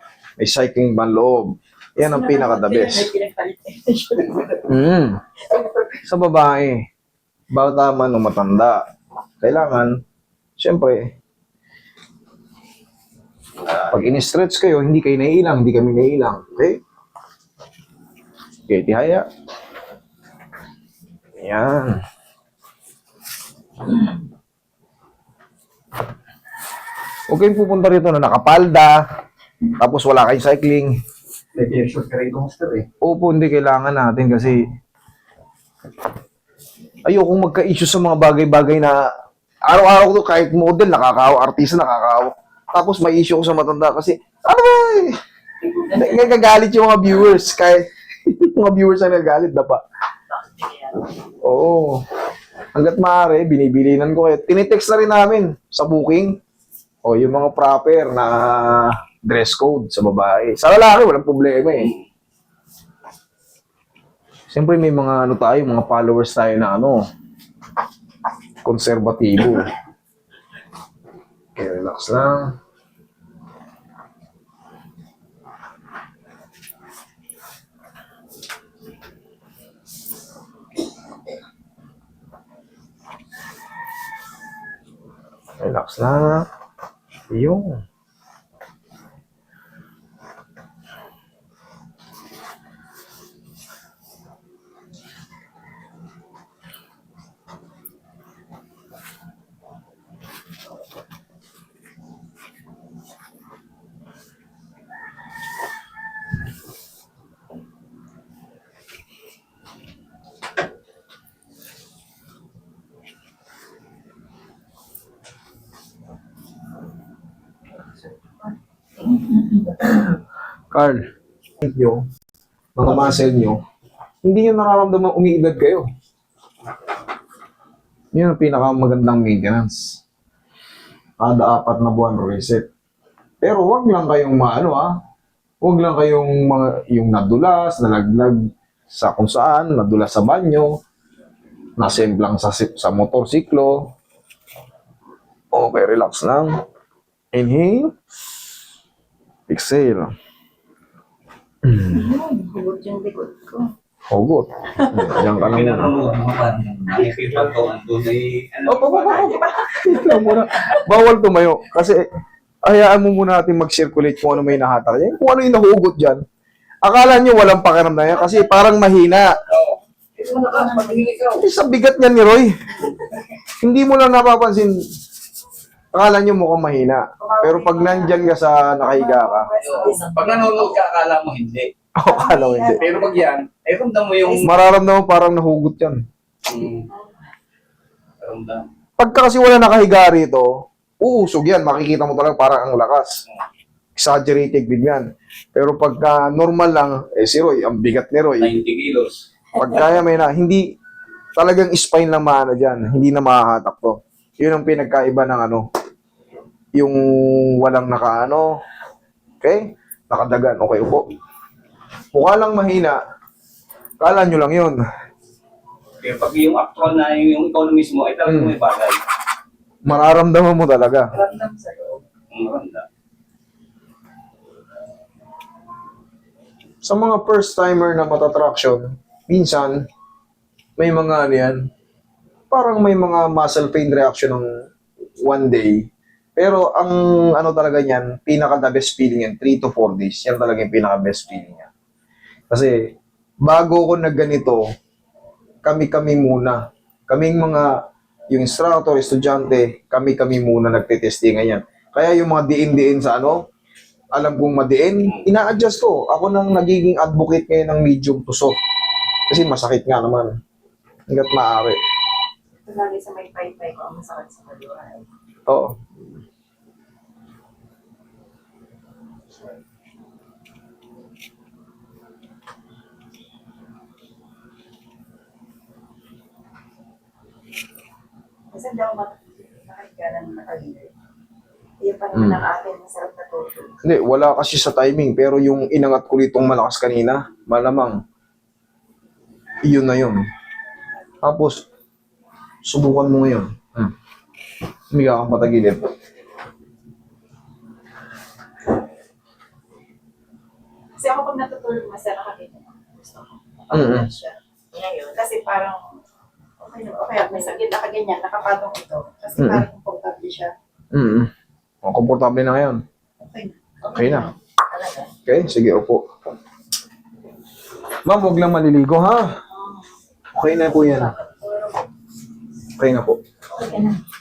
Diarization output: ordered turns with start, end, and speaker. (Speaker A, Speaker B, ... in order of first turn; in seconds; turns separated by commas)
Speaker A: 0.4-3.1, Speaker B: 2.0-4.7, Speaker A: 4.7-5.2, Speaker B: 5.5-6.0, Speaker A: 6.1-6.8, Speaker A: 7.5-8.8, Speaker A: 9.4-10.0, Speaker A: 10.6-11.1, Speaker A: 13.8-16.8, Speaker A: 18.7-19.2, Speaker A: 21.4-22.0, Speaker A: 27.3-29.0, Speaker A: 29.8-30.9, Speaker C: 31.6-32.9, Speaker A: 33.0-34.6, Speaker A: 37.1-39.0, Speaker A: 39.7-45.2, Speaker A: 45.9-49.8, Speaker A: 51.4-52.0, Speaker A: 52.7-56.4, Speaker A: 57.0-61.9, Speaker A: 64.5-67.0, Speaker A: 68.7-69.7, Speaker A: 71.5-72.5, Speaker A: 85.6-86.5, Speaker A: 87.3-87.8, Speaker B: 119.0-119.8, Speaker A: 120.7-121.0, Speaker A: 121.6-122.0, Speaker A: 122.8-123.6, Speaker A: 124.2-125.9, Speaker A: 128.1-130.0, Speaker A: 131.2-132.7, Speaker A: 133.4-134.9, Speaker A: 135.6-138.4, Speaker A: 138.9-140.7, Speaker A: 141.8-143.9, Speaker A: 145.5-146.5, Speaker A: 147.3-147.9, Speaker A: 149.5-150.1, Speaker A: 151.6-152.1, Speaker B: 151.9-153.7, Speaker A: 154.1-155.9, Speaker B: 154.8-155.1, Speaker C: 155.4-159.4, Speaker A: 158.7-162.1, Speaker B: 159.0-160.7, Speaker A: 162.6-166.2, Speaker A: 166.8-169.4, Speaker C: 169.5-171.4, Speaker A: 171.4-172.5, Speaker A: 173.6-174.8, Speaker A: 175.9-179.5, Speaker B: 177.2-178.3, Speaker B: 178.8-180.7, Speaker C: 179.6-181.7, Speaker A: 182.0-182.8, Speaker B: 182.1-183.2, Speaker C: 182.8-184.5, Speaker B: 184.2-184.6, Speaker A: 184.4-186.0, Speaker C: 186.5-186.9, Speaker B: 186.9-187.3, Speaker C: 188.2-188.7, Speaker A: 189.0-190.5, Speaker A: 191.0-193.2, Speaker A: 194.0-198.5, Speaker C: 198.4-199.2, Speaker A: 199.6-200.6, Speaker A: 201.4-205.7, Speaker A: 206.8-208.5, Speaker A: 209.4-211.1, Speaker A: 212.1-213.0, Speaker A: 214.0-214.8, Speaker C: 216.0-219.0, Speaker A: 218.2-218.6, Speaker A: 219.8-221.1, Speaker B: 221.2-222.0, Speaker C: 222.3-222.8, Speaker A: 226.8-229.8, Speaker A: 230.8-231.7, Speaker A: 232.5-234.5, Speaker A: 235.2-235.8, Speaker A: 236.4-241.7, Speaker A: 242.5-242.8, Speaker A: 243.4-244.6, Speaker A: 245.6-247.7, Speaker A: 248.3-253.4, Speaker A: 254.2-258.6, Speaker A: 259.3-260.3, Speaker A: 261.1-261.8, Speaker B: 262.6-265.1, Speaker A: 265.5-265.9, Speaker B: 278.5-280.9, Speaker B: 281.8-283.8, Speaker A: 282.1-282.4, Speaker A: 283.8-288.0, Speaker A: 289.6-290.2, Speaker A: 291.2-291.6, Speaker A: 292.6-293.9, Speaker A: 294.9-295.9, Speaker B: 301.0-304.4, Speaker A: 303.7-304.1, Speaker B: 305.0-305.8, Speaker B: 306.6-310.5, Speaker A: 309.4-309.7, Speaker A: 310.9-311.3, Speaker A: 311.8-312.8, Speaker B: 313.2-314.3, Speaker A: 313.8-314.3, Speaker A: 315.3-316.0, Speaker A: 318.1-319.3, Speaker A: 320.3-321.1, Speaker A: 322.8-323.2, Speaker B: 323.6-324.0